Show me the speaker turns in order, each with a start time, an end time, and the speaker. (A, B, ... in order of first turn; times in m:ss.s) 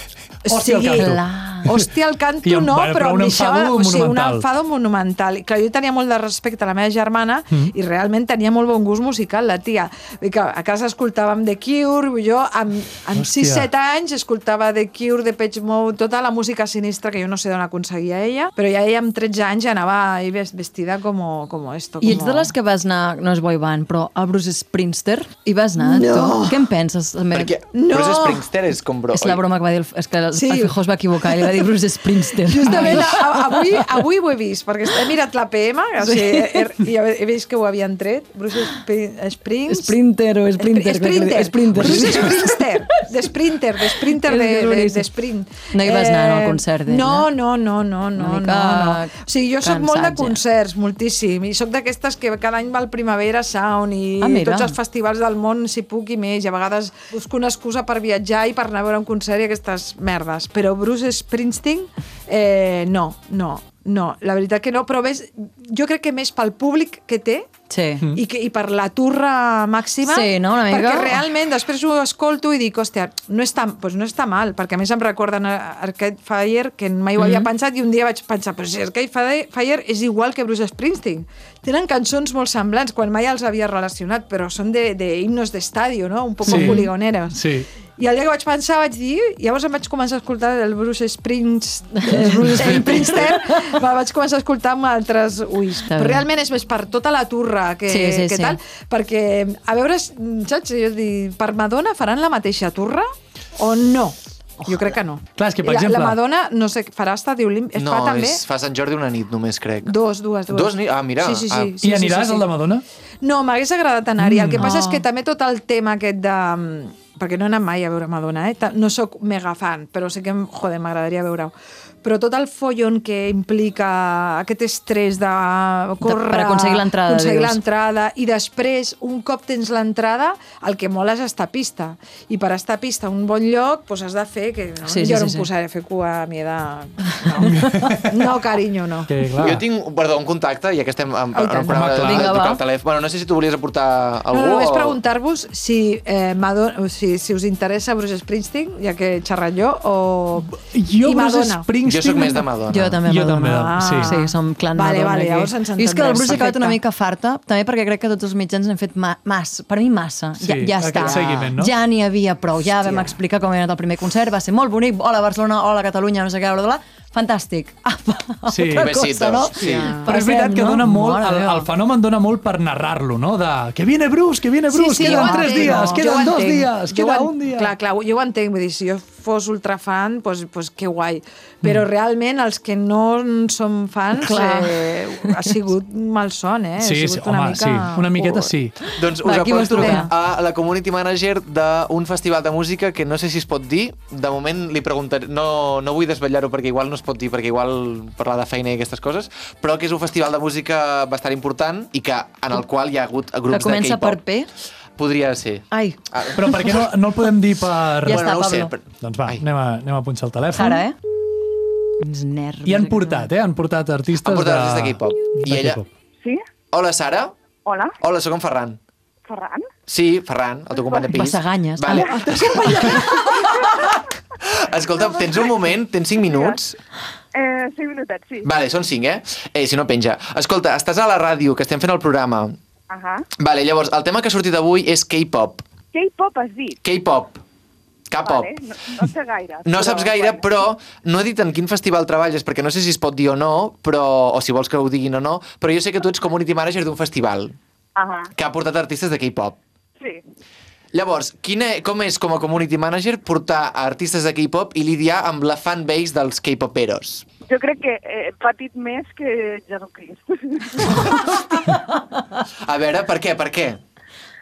0:00.4-0:22.5 A
0:00.5-0:01.9 B
0:01.0-0:01.7 C
0:02.4-0:04.5 B
0:13.2-0:13.7 B
0:22.0-0:27.5 C
0:25.8-0:26.7 A
0:27.3-0:29.4 D
0:27.7-0:28.5 A
0:29.1-0:33.8 C
0:30.3-0:30.7 A
0:31.3-0:31.6 A
0:32.4-0:40.0 A
0:36.0-0:36.7 C
0:39.7-0:42.7 C
0:40.6-1:07.5 A
0:43.8-0:45.1 C
0:45.7-0:47.3 C
0:48.2-0:50.4 C
0:54.2-0:54.8 C
1:07.7-1:08.1 C
1:08.1-1:27.4 A
1:10.0-1:11.2 C
1:17.2-1:17.5 C
1:26.4-1:27.7 B
1:26.5-1:26.9 C
1:28.0-1:48.4 A
1:32.0-1:33.8 C
1:32.6-1:32.9 B
1:35.9-1:36.3 C
1:37.9-1:38.6 C
1:45.4-1:46.2 B
1:47.8-1:50.0 D
1:49.8-1:52.5 A
1:50.5-1:51.8 D
1:51.8-1:52.8 B
1:53.2-2:19.2 A
1:54.2-1:54.7 B
1:54.6-1:55.0 C
2:06.0-2:07.6 C
2:14.9-2:15.5 C
2:17.4-2:18.3 B
2:19.1-2:19.6 B
2:19.4-2:25.0 D
2:21.4-2:21.8 A
2:21.7-2:22.4 B
2:21.9-2:22.6 C
2:24.3-2:31.7 A
2:30.5-2:34.1 B
2:31.8-2:33.0 D
2:32.7-2:51.7 C
2:33.5-2:36.8 A
2:40.4-2:41.7 B
2:48.5-2:49.0 B
2:48.7-2:50.0 D
2:49.6-2:57.7 B
2:54.7-3:08.5 A
2:55.0-2:56.1 C
3:04.2-3:05.4 C
3:06.8-3:08.8 B
3:08.9-3:24.2 D
3:09.1-3:10.1 C
3:09.7-3:10.1 A
3:23.5-3:24.5 C
3:25.0-3:26.8 D
3:25.7-3:26.0 C
3:26.3-3:28.2 B
3:28.0-3:29.4 D
3:28.0-3:28.7 C
3:29.0-3:30.8 B
3:30.5-3:31.0 C
3:32.0-3:33.3 C
3:32.7-3:35.9 B
3:34.2-3:35.8 D
3:36.7-3:37.4 D
3:37.6-3:38.0 E
3:38.0-3:38.8 D
3:39.3-3:39.7 E
3:39.9-3:43.0 D
3:40.7-3:41.2 E
3:41.1-3:42.8 C
3:41.9-3:42.2 E
3:42.2-3:43.7 A
3:43.6-3:43.9 E
3:44.4-3:46.8 D
3:45.0-3:46.6 E
3:47.3-3:48.5 E
3:48.4-3:52.6 D
3:52.9-3:53.3 E
3:53.4-3:55.7 D
3:55.9-3:56.8 E
3:56.8-3:57.4 D
3:58.1-3:58.5 D
3:58.2-4:00.5 E
3:59.7-4:07.6 D
4:08.0-4:08.3 E
4:08.4-4:09.6 D
4:10.9-4:17.3 D
4:17.5-4:21.4 E
4:22.6-4:23.8 D